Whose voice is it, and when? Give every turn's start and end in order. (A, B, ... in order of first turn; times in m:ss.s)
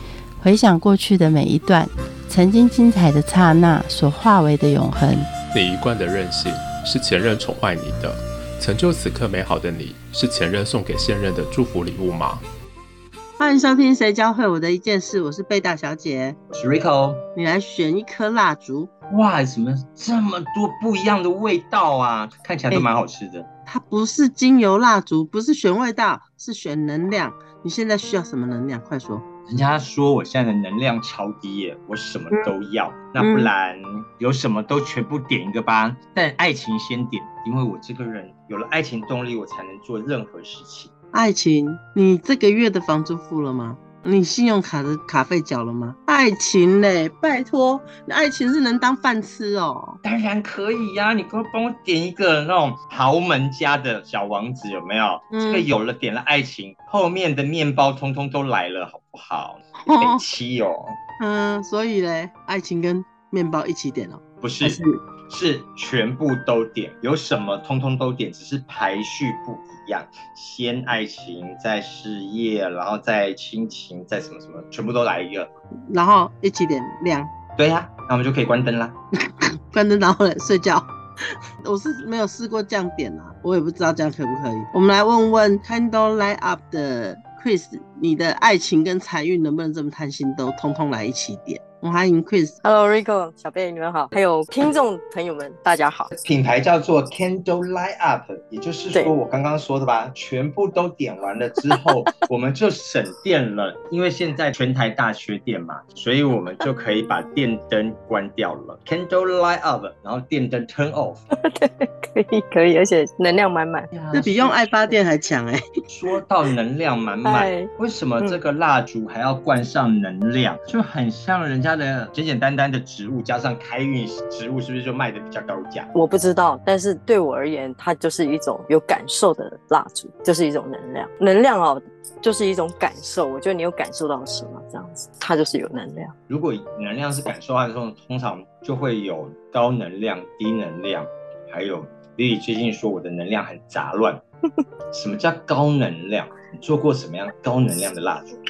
0:00.4-0:05.3 A
0:05.5-0:12.4 B
0:13.4-0:16.4 C
0:16.5-0:17.2 D
0:17.4-0:18.9 C
0:19.1-0:23.5 D
0:23.7-0:29.2 C
0:29.5-0:40.9 D
0:33.2-0:33.5 C
0:41.1-0:50.0 C
0:50.0-1:01.0 D
0:55.3-0:55.7 C
0:59.8-1:00.2 C
1:01.2-1:05.0 C
1:04.4-1:15.5 D
1:15.9-1:17.3 C
1:17.6-1:19.0 D
1:19.3-1:32.6 C
1:32.6-1:36.1 E
1:36.2-1:51.2 D
1:51.4-1:53.9 E
1:53.9-1:55.0 D
1:54.1-1:55.6 C
1:55.9-2:05.9 D
1:57.2-1:58.4 E
2:05.9-2:16.1 E
2:16.3-2:24.2 D
2:24.9-2:28.4 D